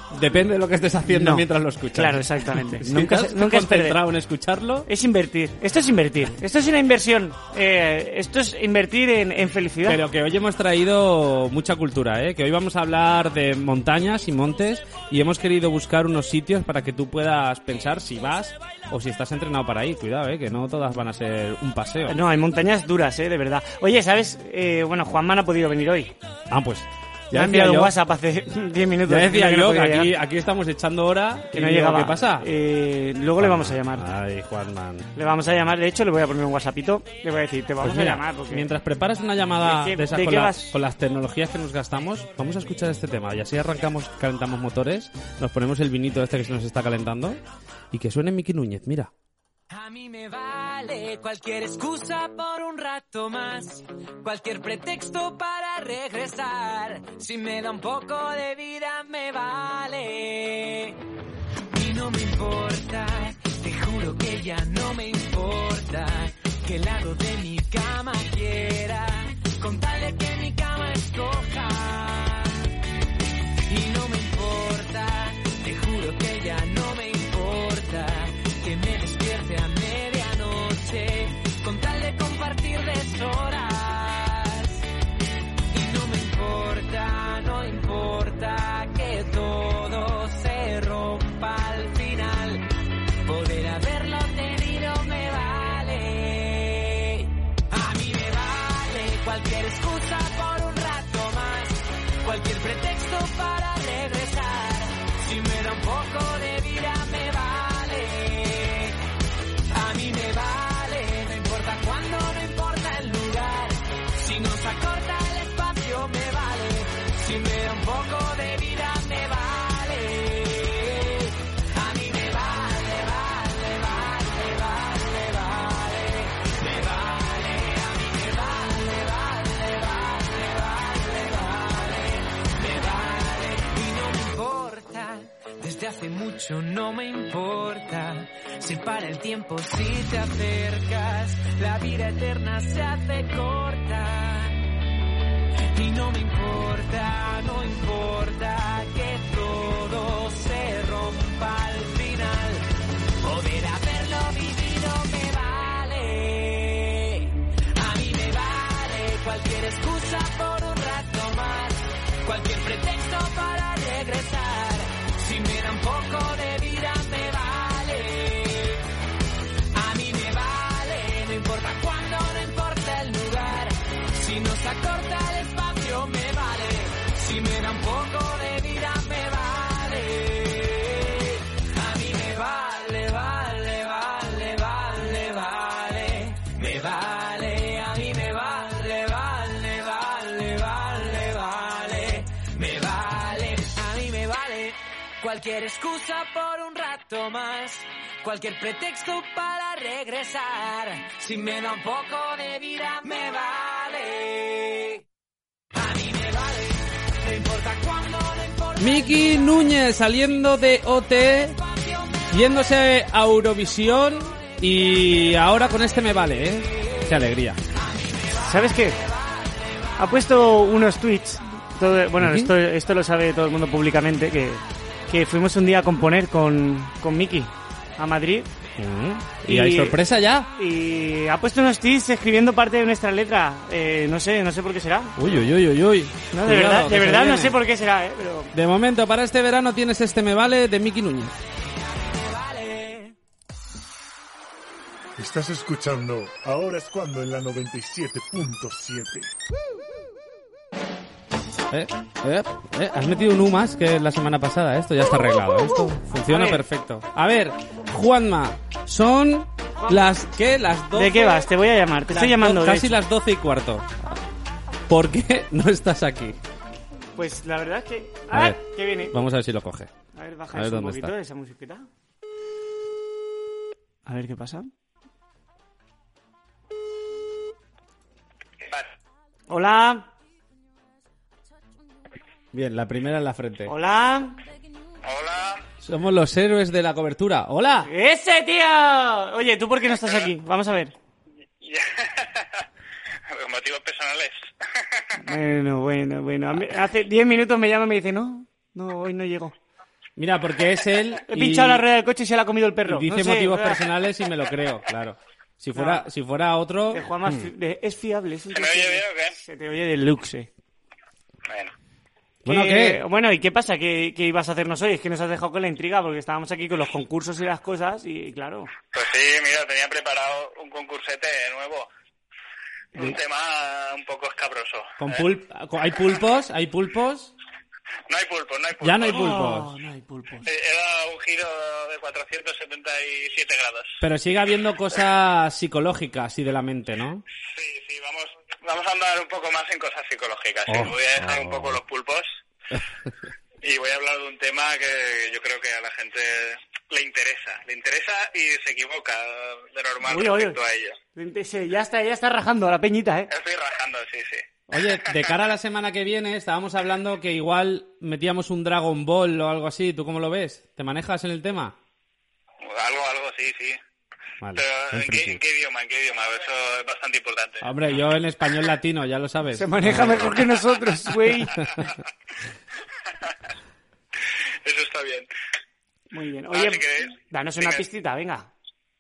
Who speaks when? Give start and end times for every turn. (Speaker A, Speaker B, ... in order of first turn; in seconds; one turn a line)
Speaker A: 0.1-4.9
Speaker B: 1.1-4.0
Speaker B: 4.9-10.0
Speaker A: 9.8-22.2
Speaker B: 22.1-26.1
Speaker A: 26.5-28.0
Speaker B: 27.3-30.1
Speaker A: 29.1-32.5
Speaker B: 31.5-34.1
Speaker A: 33.4-35.1
Speaker B: 35.2-38.7
Speaker A: 37.8-47.4
Speaker B: 39.6-40.8
Speaker A: 47.9-49.1
Speaker C: 49.7-61.0
Speaker C: 61.7-72.6
Speaker C: 73.7-84.9
Speaker C: 85.7-92.7
Speaker C: 93.2-109.0
Speaker C: 109.7-144.6
Speaker C: 145.7-152.7
Speaker C: 153.2-168.8
Speaker C: 169.7-205.0
Speaker C: 205.8-209.6
Speaker A: 208.8-211.6
Speaker C: 211.6-212.4
Speaker A: 212.3-217.6
Speaker C: 217.8-219.7
Speaker B: 218.4-219.0
Speaker B: 220.0-228.5
Speaker A: 222.2-222.5
Speaker A: 228.8-230.5
Speaker B: 229.5-230.0
Speaker B: 230.6-235.4
Speaker A: 235.2-237.6
Speaker B: 236.3-238.5
Speaker A: 238.5-241.4
Speaker C: 241.9-243.2
Speaker D: 245.2-249.3
Speaker A: 251.7-261.5
Speaker B: 256.3-256.6
Speaker B: 259.8-260.2
Speaker B: 260.9-262.9
Speaker A: 262.1-263.9
Speaker A: 264.9-266.4
Speaker B: 267.2-269.2
Speaker A: 268.3-269.9
Speaker B: 270.1-271.9
Speaker A: 270.5-271.1
Speaker B: 274.1-274.7
Speaker E: 278.6-278.9
Speaker B: 279.5-280.1
Speaker A: 282.5-283.7
Speaker B: 283.7-284.4
Speaker E: 285.0-285.6
Speaker A: 285.8-287.9
Speaker B: 287.9-290.9
Speaker E: 291.6-292.6
Speaker E: 293.3-295.2
Speaker B: 295.2-299.6
Speaker A: 300.2-301.9
Speaker B: 301.3-303.8
Speaker A: 302.9-307.5
Speaker B: 305.8-306.1
Speaker B: 306.9-310.5
Speaker E: 308.5-309.3
Speaker E: 311.5-311.7
Speaker A: 312.4-313.0
Speaker B: 312.5-318.7
Speaker E: 318.9-321.9
Speaker E: 323.0-325.2
Speaker A: 325.0-327.3
Speaker E: 328.1-329.2
Speaker A: 328.8-329.7
Speaker B: 329.1-330.5
Speaker E: 330.4-333.9
Speaker A: 334.0-337.2
Speaker E: 337.5-342.3
Speaker A: 340.7-341.8
Speaker E: 343.6-351.0
Speaker B: 350.1-350.6
Speaker B: 351.1-353.3
Speaker E: 353.3-354.4
Speaker A: 354.7-361.8
Speaker E: 362.6-363.8
Speaker A: 364.4-365.4
Speaker E: 364.6-367.7
Speaker A: 367.6-370.4
Speaker B: 369.6-371.6
Speaker E: 374.3-375.3
Speaker B: 376.1-378.5
Speaker E: 376.5-377.8